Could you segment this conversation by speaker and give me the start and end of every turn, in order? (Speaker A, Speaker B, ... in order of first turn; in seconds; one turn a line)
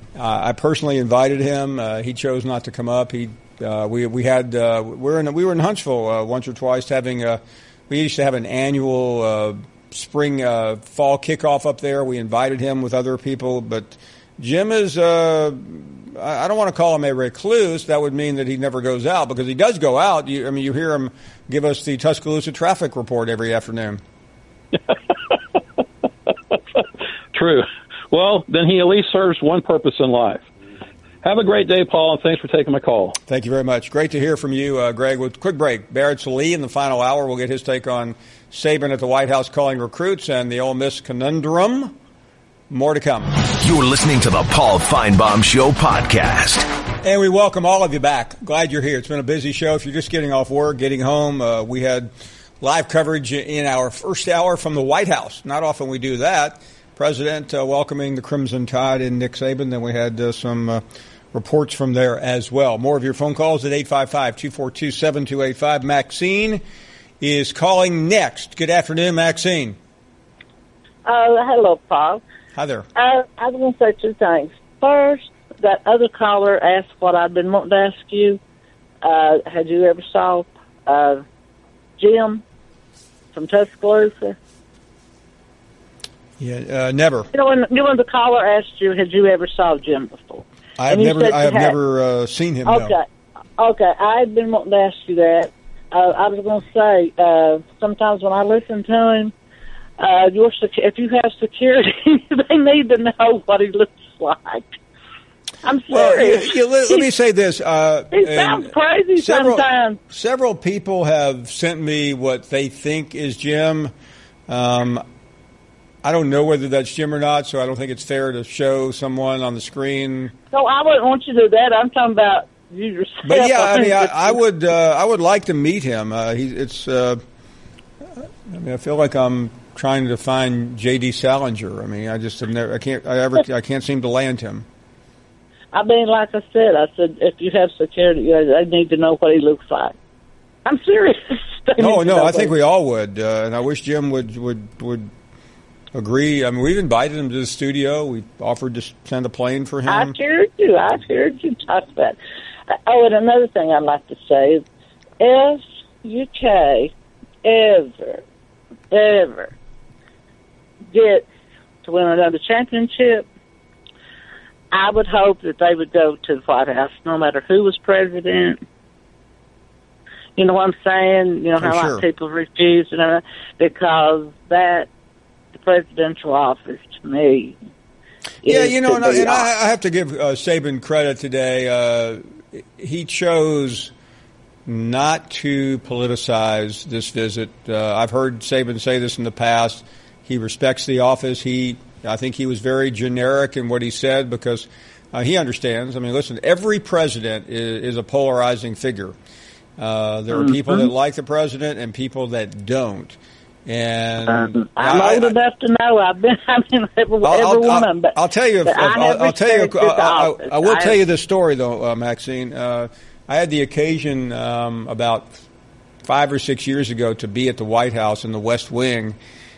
Speaker A: 0.2-24.0
Speaker B: 27.3-30.4
Speaker B: 31.2-33.2
Speaker A: 33.3-42.0
Speaker A: 42.7-43.3
Speaker C: 43.6-46.7
Speaker A: 47.0-60.8
Speaker A: 61.3-66.6
Speaker A: 67.2-69.8
Speaker D: 71.0-72.2
Speaker A: 72.5-72.9
Speaker D: 73.0-78.4
Speaker D: 79.0-81.2
Speaker D: 82.0-82.4
Speaker D: 83.3-84.4
Speaker A: 86.4-87.3
Speaker D: 87.3-91.8
Speaker A: 90.8-93.0
Speaker D: 92.7-93.0
Speaker D: 93.6-99.3
Speaker D: 100.0-104.7
Speaker D: 105.6-107.1
Speaker A: 105.9-113.9
Speaker D: 108.1-110.0
Speaker A: 114.5-115.0
Speaker A: 116.0-120.3
Speaker D: 120.5-124.4
Speaker A: 123.2-127.2
Speaker A: 128.5-134.7
Speaker D: 135.7-139.9
Speaker D: 140.7-142.6
Speaker A: 141.8-145.1
Speaker A: 145.9-150.2
Speaker D: 149.9-152.2
Speaker D: 152.9-154.7
Speaker D: 155.2-156.9
Speaker D: 157.4-158.2
Speaker D: 158.9-159.5
Speaker D: 160.9-161.3
Speaker D: 161.8-163.3
Speaker D: 164.7-168.6
Speaker D: 170.4-174.9
Speaker A: 171.6-172.1
Speaker D: 175.6-177.6
Speaker D: 178.4-179.5
Speaker A: 178.4-183.9
Speaker A: 184.7-199.1
Speaker A: 199.8-205.4
Speaker D: 200.3-200.9
Speaker D: 204.3-211.0
Speaker A: 207.2-215.3
Speaker A: 216.1-219.2